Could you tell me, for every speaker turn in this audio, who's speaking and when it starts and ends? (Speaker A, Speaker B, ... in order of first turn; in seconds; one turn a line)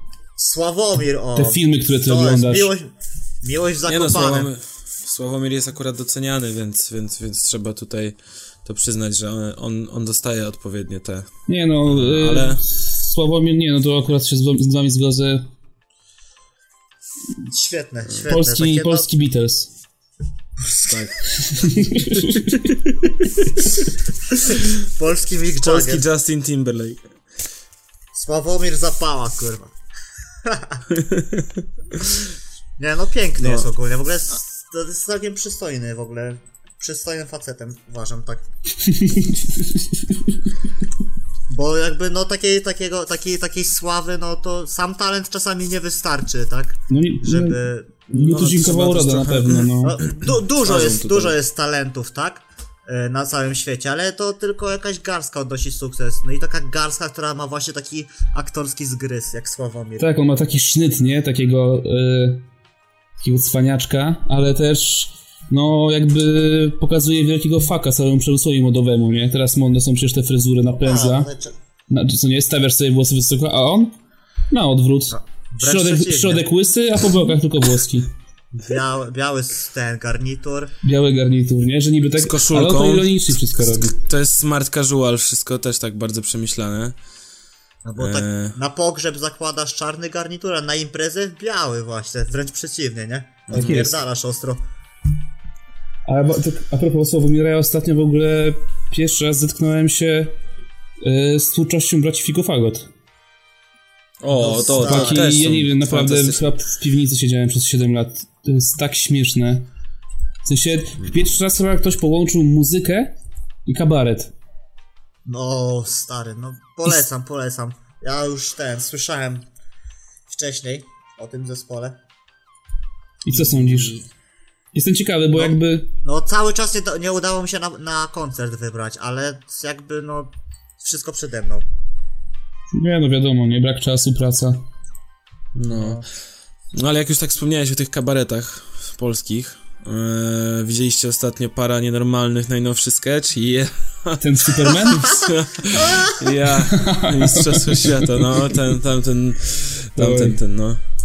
Speaker A: 0.4-4.5
Speaker B: 1.4-2.7
Speaker C: 3.9-11.3
Speaker B: 11.5-15.4
Speaker C: 11.9-12.6
Speaker A: 17.4-19.1
Speaker B: 18.3-19.7
Speaker C: 20.8-21.2
Speaker B: 21.5-22.7
Speaker C: 22.2-23.0
Speaker A: 24.5-26.1
Speaker C: 25.6-27.0
Speaker A: 28.1-29.7
Speaker A: 30.4-30.8
Speaker C: 30.9-31.5
Speaker A: 32.8-38.5
Speaker C: 33.4-33.7
Speaker B: 38.9-39.7
Speaker A: 41.5-48.1
Speaker B: 46.9-50.0
Speaker C: 48.1-49.7
Speaker A: 49.8-60.1
Speaker C: 50.6-51.4
Speaker B: 60.0-62.4
Speaker B: 63.2-71.3
Speaker A: 70.8-71.5
Speaker B: 71.9-74.0
Speaker B: 74.5-78.1
Speaker A: 75.1-76.5
Speaker A: 78.6-80.7
Speaker B: 80.8-84.0
Speaker C: 82.2-83.2
Speaker C: 83.8-87.0
Speaker A: 87.8-94.6
Speaker C: 88.0-88.6
Speaker C: 93.5-93.8
Speaker B: 93.5-94.0
Speaker B: 96.1-100.4
Speaker B: 101.0-102.9
Speaker C: 104.2-106.5
Speaker A: 104.3-105.3
Speaker B: 104.6-109.7
Speaker B: 110.5-113.1
Speaker B: 113.7-114.3
Speaker A: 115.2-119.5
Speaker A: 120.3-122.0
Speaker B: 123.2-124.0
Speaker A: 123.3-124.0
Speaker B: 124.7-125.9
Speaker A: 125.3-131.7
Speaker B: 132.7-134.6
Speaker C: 135.6-136.1
Speaker A: 135.7-136.1
Speaker C: 136.7-150.8
Speaker B: 144.2-145.1
Speaker A: 145.8-146.1
Speaker B: 146.7-148.5
Speaker B: 150.0-150.4